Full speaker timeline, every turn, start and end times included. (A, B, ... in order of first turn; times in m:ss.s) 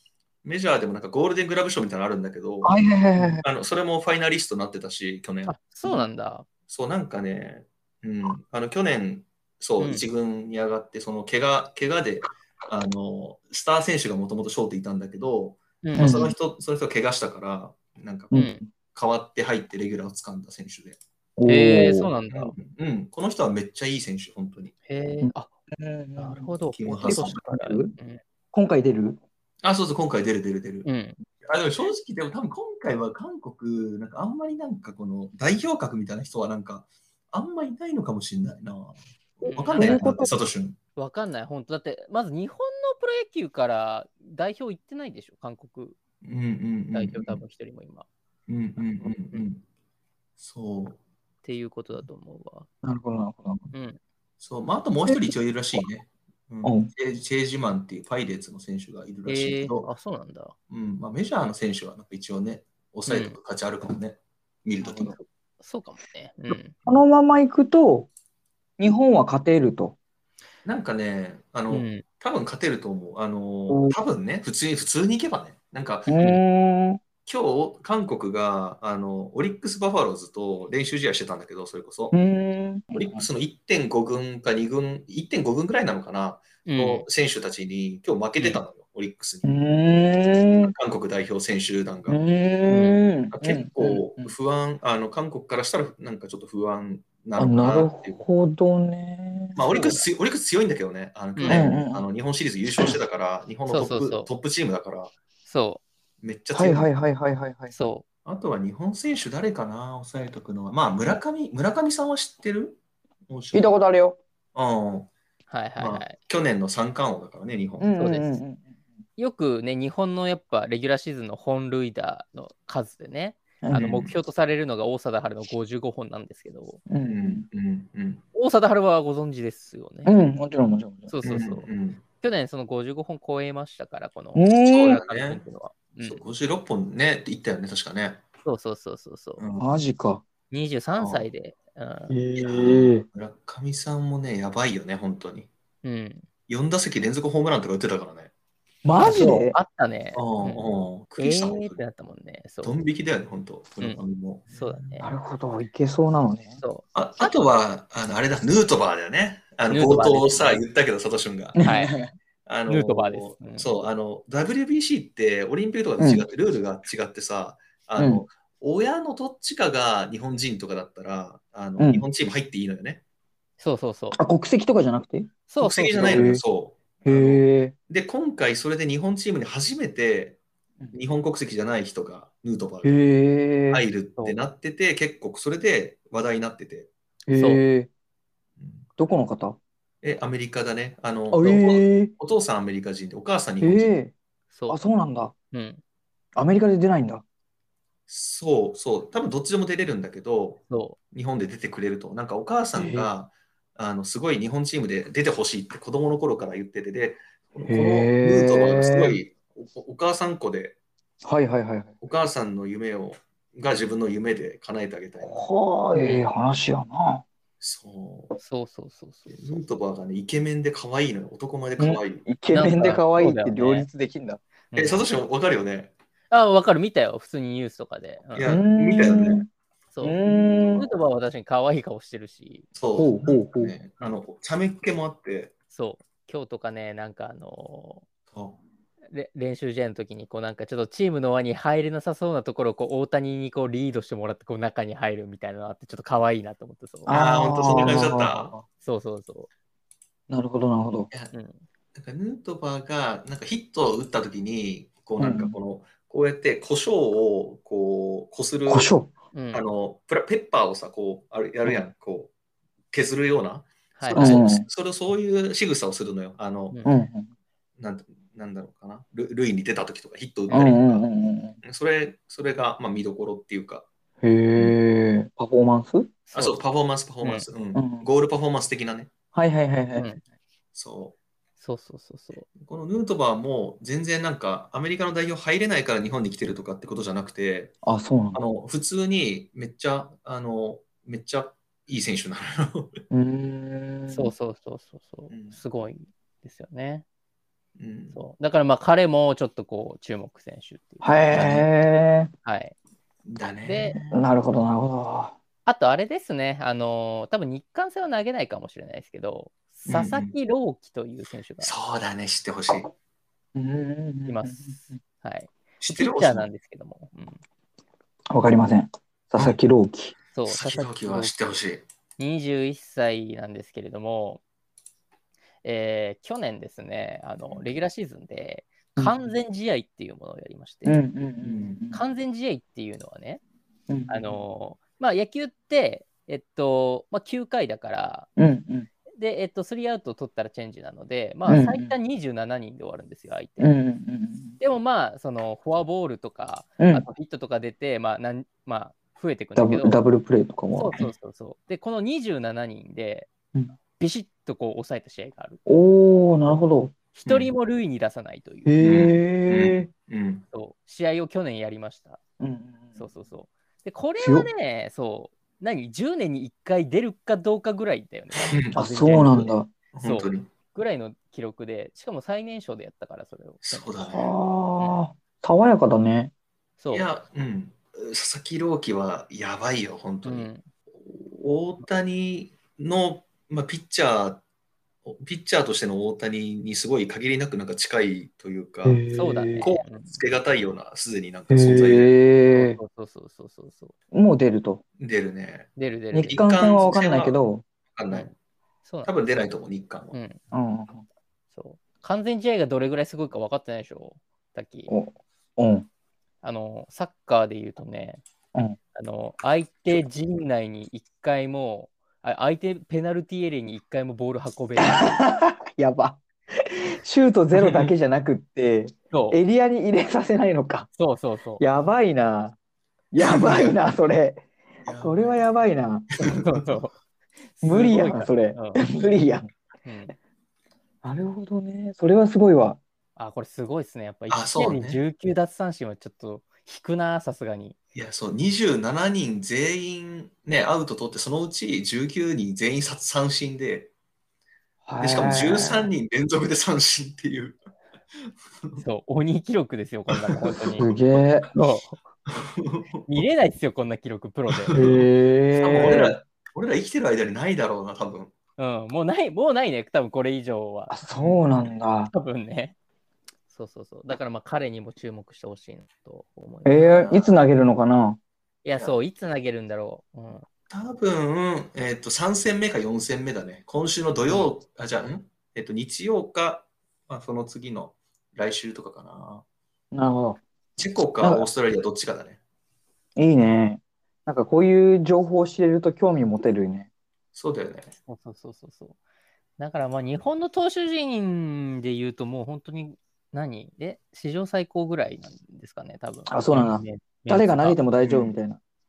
0:00.4-0:02.8 A
0:02.6-0:03.4 B
0:03.4-0:05.6 A
0:05.5-0:06.4 C
0:06.7-0:21.0 A
0:09.8-0:10.0 C
0:15.8-0:16.1 C
0:16.0-0:16.3 B
0:18.3-0:18.7 B
0:18.3-0:18.6 C
0:21.4-0:22.1 B
0:21.4-0:22.6 C
0:22.3-0:24.7 A
0:24.8-0:25.5 C
0:25.2-0:28.0 B
0:26.2-0:28.2 C
0:26.8-0:27.4 A
0:28.5-0:29.2 B
0:29.6-0:30.9 A
0:30.8-0:31.2 C
0:31.4-0:40.8 A
0:39.4-0:40.2 C
0:39.7-0:40.3 B
0:41.0-0:46.0 C
0:46.2-0:47.4 A
0:46.9-0:48.1 C
0:48.5-0:49.6 A
0:50.4-0:51.0 A
0:51.4-0:52.7 C
0:52.8-0:53.6 B
0:53.7-0:54.0 C
0:54.4-0:59.9 A
0:56.6-0:56.9 B
0:59.2-1:00.5 C
1:00.7-1:05.2 A
1:03.1-1:03.4 C
1:04.8-1:05.2 B
1:05.6-1:06.8 C
1:06.8-1:08.1 B
1:08.8-1:09.9 B
1:10.6-1:16.2 A
1:11.7-1:12.0 C
1:13.7-1:14.0 B
1:16.1-1:17.0 B
1:17.2-1:22.2 A
1:22.1-1:23.2 B
1:22.9-1:29.6 A
1:26.6-1:27.0 C
1:29.4-1:30.7 B
1:30.4-1:38.2 A
1:32.1-1:34.3 B
1:37.4-1:39.6 B
1:39.5-1:45.1 A
1:39.6-1:40.1 C
1:41.4-1:41.7 C
1:41.5-1:42.0 B
1:43.7-1:44.3 C
1:45.4-1:45.8 C
1:46.2-1:46.9 A
1:46.5-1:47.9 B
1:47.7-1:48.0 C
1:48.2-1:53.7 A
1:53.5-1:54.2 B
1:54.5-1:55.1 A
1:55.5-1:56.2 C
1:55.8-1:57.9 A
1:57.8-1:58.7 B
1:58.0-1:58.3 C
1:59.2-2:06.8 C
2:03.6-2:03.9 B
2:03.7-2:04.1 A
2:06.9-2:07.4 B
2:07.1-2:08.2 A
2:08.3-2:10.1 C
2:10.0-2:11.1 B
2:11.1-2:11.7 C
2:11.2-2:12.0 A
2:12.2-2:16.2 C
2:14.3-2:15.0 B
2:14.6-2:15.4 A
2:16.0-2:18.2 A
2:18.4-2:19.4 C
2:19.4-2:19.6 A
2:19.6-2:20.2 B
2:20.5-2:22.1 C
2:21.0-2:21.3 A
2:22.1-2:23.0 B
2:22.3-2:25.5 A
2:25.8-2:26.2 C
2:26.5-2:28.3 A
2:28.8-2:29.6 B
2:29.0-2:32.8 C
2:30.1-2:31.8 A
2:32.6-2:35.0 A
2:33.8-2:35.1 C
2:35.0-2:36.6 B
2:36.6-2:37.4 C
2:36.9-2:41.6 A
2:39.7-2:40.6 C
2:41.6-2:42.1 B
2:41.6-2:42.0 C
2:42.4-2:53.0 A
2:42.7-2:43.7 C
2:46.0-2:46.2 B
2:48.0-2:48.2 B
2:51.8-2:52.0 B
2:53.6-2:54.2 C
2:54.2-2:55.3 B
2:55.5-2:56.3 C
2:55.6-3:00.4 A
2:56.0-2:56.4 B
2:57.0-2:57.7 B
3:00.9-3:03.0 A
3:02.8-3:03.8 B
3:03.7-3:06.9 A
3:07.3-3:07.9 B
3:07.3-3:07.6 C
3:08.6-3:08.9 A
3:09.0-3:09.6 B
3:10.0-3:13.9 A
3:11.3-3:12.1 B
3:13.6-3:14.1 B
3:14.5-3:14.8 C
3:14.7-3:15.3 B
3:15.5-3:15.8 C
3:16.4-3:17.2 B
3:18.1-3:30.8 A
3:20.7-3:21.0 C
3:22.7-3:23.1 B
3:27.7-3:29.2 B
3:31.2-3:32.0 B
3:32.0-3:35.4 A
3:35.2-3:37.2 B
3:35.9-3:36.2 C
3:37.6-3:38.4 A
3:38.4-3:39.6 C
3:39.3-3:42.3 A
3:41.8-3:44.4 B
3:42.5-3:43.9 C
3:44.7-3:45.0 C
3:44.7-3:45.9 A
3:46.3-3:48.5 C
3:48.3-3:49.4 A
3:48.4-3:49.5 B
3:49.9-3:50.2 C
3:50.0-3:50.9 B
3:50.7-3:52.7 C
3:52.7-3:55.5 A
3:53.0-3:53.7 B
3:55.7-3:58.0 C
3:58.3-3:58.6 A
3:59.1-4:07.1 C
4:07.1-4:08.5 A
4:07.1-4:08.6 B
4:08.8-4:09.5 C
4:10.3-4:11.1 B
4:11.3-4:11.6 C
4:11.9-4:18.9 A
4:15.2-4:15.5 B
4:18.7-4:19.1 B
4:19.3-4:19.6 C
4:19.5-4:22.3 A
4:22.9-4:26.8 A
4:24.0-4:24.4 C
4:24.1-4:24.6 B
4:26.8-4:27.3 B
4:27.8-4:31.1 A
4:30.5-4:30.8 C
4:30.5-4:31.6 B
4:31.6-4:33.9 A
4:34.2-4:36.1 B
4:36.3-4:36.6 C
4:36.3-4:39.1 A
4:37.7-4:38.0 B
4:39.3-4:40.1 B
4:40.0-4:40.2 C
4:40.7-4:41.2 A
4:41.6-4:42.5 C
4:42.6-4:47.8 A
4:47.8-4:48.4 B
4:48.3-4:53.0 A
4:53.1-4:54.3 B
4:54.1-4:57.0 C
4:55.3-4:55.6 A
4:57.8-4:58.2 A
4:58.1-5:01.1 C
5:01.0-5:02.3 B
5:01.3-5:01.7 A
5:02.4-5:02.7 C
5:03.3-5:04.1 A
5:03.6-5:04.0 C
5:04.1-5:05.4 B
5:05.6-5:11.7 C
5:09.8-5:10.3 A
5:11.6-5:12.9 A
5:13.5-5:15.0 B
5:14.3-5:17.4 C
5:15.8-5:16.5 A
5:18.3-5:20.1 B
5:20.3-5:21.3 C
5:20.4-5:21.8 A
5:22.2-5:24.4 C
5:25.6-5:31.0 C
5:30.8-5:32.0 B
5:31.4-5:31.8 A
5:31.9-5:33.4 C
5:33.9-5:34.4 B
5:34.1-5:38.3 C
5:38.4-5:38.9 B
5:39.2-5:43.7 C
5:41.4-5:41.9 B
5:43.6-5:44.6 B
5:44.6-5:50.0 C
5:46.8-5:47.0 B
5:49.6-5:51.1 B
5:50.7-5:53.3 C
5:54.0-5:55.6 C
5:55.6-5:56.9 B
5:57.1-5:58.8 C
5:57.2-5:57.5 A
5:58.6-5:59.9 B
5:58.8-6:00.4 A
6:00.5-6:02.2 C
6:02.4-6:03.1 B
6:03.0-6:09.4 C
6:04.2-6:04.5 B
6:08.3-6:10.5 A
6:08.7-6:09.7 B
6:10.0-6:13.9 C
6:13.7-6:14.3 A
6:14.1-6:16.3 B
6:16.8-6:17.1 C
6:16.9-6:20.5 A
6:20.2-6:20.6 C
6:21.0-6:24.4 A
6:25.0-6:29.0 A
6:28.8-6:29.7 B
6:29.1-6:30.2 C
6:29.6-6:32.1 A
6:31.5-6:32.8 B
6:32.5-6:33.9 C
6:34.1-6:34.8 B
6:35.0-6:35.7 A
6:35.8-6:36.4 C
6:36.1-6:37.6 B
6:36.2-6:37.4 A
6:37.9-6:38.3 A
6:38.8-6:39.1 C
6:39.0-6:40.1 A
6:40.1-6:40.4 C
6:40.5-6:41.0 B
6:41.5-6:44.9 C
6:44.9-6:45.9 B
6:46.4-6:48.2 C
6:48.9-6:55.1 C
6:54.8-7:00.9 B
6:59.1-6:59.4 C
7:01.0-7:01.6 C
7:01.6-7:02.6 B
7:03.1-7:04.4 B
7:04.8-7:05.5 A
7:05.0-7:06.1 B
7:06.2-7:06.8 A
7:06.2-7:06.9 C
7:07.6-7:08.8 C
7:07.6-7:09.5 B
7:09.8-7:10.1 C
7:11.0-7:12.8 B
7:13.2-7:17.8 C
7:14.3-7:15.0 A
7:17.9-7:23.9 A
7:24.8-7:25.9 B
7:25.0-7:27.6 A
7:28.8-7:30.9 C
7:30.1-7:31.3 A
7:30.8-7:31.5 B
7:31.5-7:32.0 C
7:32.3-7:33.2 A
7:33.1-7:34.8 C
7:34.5-7:38.3 A
7:34.7-7:36.1 B
7:35.8-7:36.1 C
7:38.6-7:41.0 C
7:40.9-7:42.1 B
7:41.1-7:41.4 A
7:42.1-7:42.7 C
7:43.5-7:47.0 C
7:46.6-7:48.2 B
7:46.9-7:47.4 A
7:48.6-7:50.4 C
7:50.7-7:59.4 A
7:59.9-8:00.4 B
8:00.8-8:02.4 A
8:01.2-8:01.5 B
8:03.2-8:06.9 B
8:07.3-8:07.9 A
8:08.0-8:09.0 C
8:09.6-8:17.8 C
8:16.3-8:18.6 B
8:18.0-8:18.3 A